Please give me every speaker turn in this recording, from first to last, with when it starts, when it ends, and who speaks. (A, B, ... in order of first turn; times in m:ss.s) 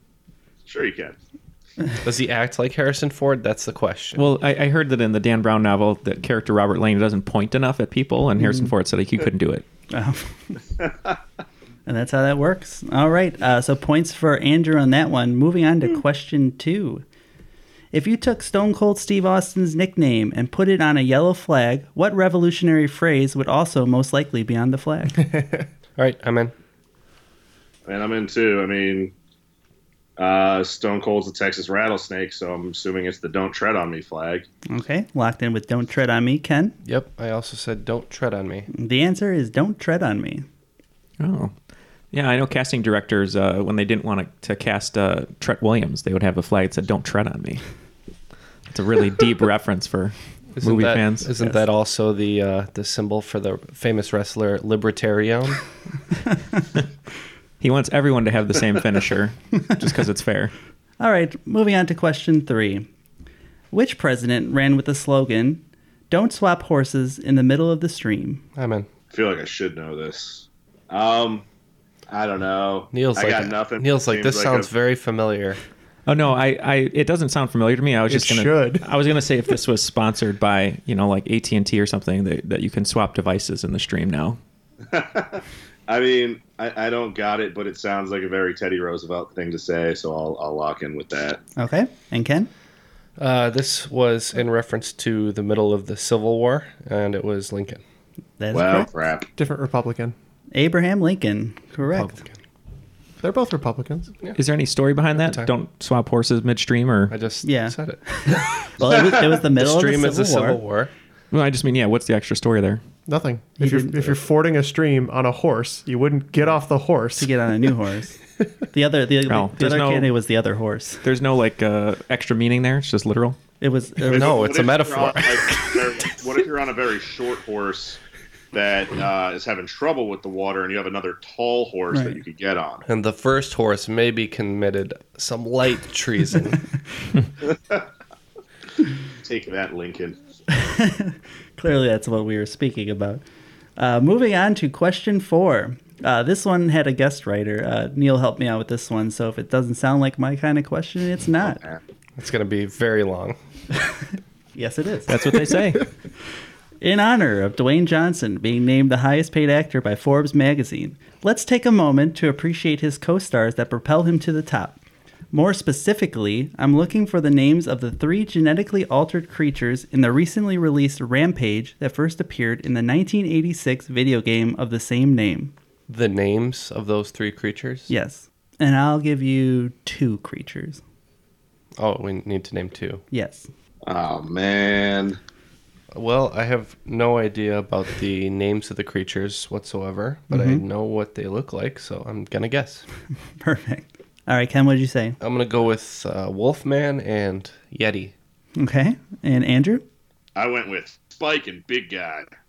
0:00.7-0:01.2 A
0:02.0-0:04.3 B
0:04.2-0:09.6 C
0:08.4-0:08.7 D
0:09.9-0:10.6 D
0:11.9-0:17.0 D
0:17.9-0:25.2 D
0:25.2-0:25.7 E
0:26.0-0:26.5 B
0:27.8-0:29.1 A
0:30.2-0:34.5 A
0:34.7-0:36.8 D
0:36.8-0:38.7 B
0:38.7-0:40.4 D
0:41.2-0:41.5 C
0:42.1-0:47.6 C
0:48.7-0:51.3 C
0:50.6-0:55.6 B
0:57.6-1:00.5 C
1:01.0-1:02.9 D
1:03.7-1:08.4 D
1:08.6-1:08.9 B
1:09.1-1:11.4 A
1:12.1-1:14.7 A
1:12.9-1:15.6 B
1:16.1-1:24.4 C
1:18.1-1:18.8 E
1:24.9-1:31.4 A
1:31.6-1:32.5 D
1:33.2-1:37.8 B
1:38.4-1:38.9 D
1:38.5-1:39.3 A
1:39.4-1:40.2 E
1:40.5-1:42.1 D
1:41.9-1:42.3 B
1:43.2-1:44.2 E
1:44.3-1:47.1 C
1:45.2-1:45.5 B
1:47.1-1:48.0 B
1:47.4-1:50.6 D
1:48.8-1:50.9 B
1:51.3-1:52.8 C
1:53.1-1:57.3 E
1:53.6-1:54.1 D
1:57.2-1:58.2 D
1:58.7-2:01.0 D
1:59.3-2:00.1 C
2:01.0-2:03.4 C
2:03.6-2:04.5 D
2:04.1-2:08.0 A
2:04.1-2:05.4 B
2:08.5-2:12.8 A
2:11.9-2:12.2 D
2:12.8-2:16.7 B
2:17.5-2:17.8 A
2:19.2-2:20.2 A
2:20.5-2:23.2 D
2:23.8-2:31.6 D
2:31.4-2:31.8 A
2:32.2-2:33.4 B
2:34.6-2:35.2 D
2:35.1-2:35.9 C
2:36.8-2:44.8 D
2:45.3-2:55.5 D
2:55.9-2:57.9 B
2:57.9-3:00.8 D
3:01.8-3:03.0 B
3:03.1-3:03.5 D
3:03.8-3:05.2 A
3:05.9-3:12.8 B
3:10.3-3:10.6 D
3:13.4-3:15.2 D
3:15.2-3:18.1 B
3:18.6-3:19.8 D
3:20.4-3:22.3 A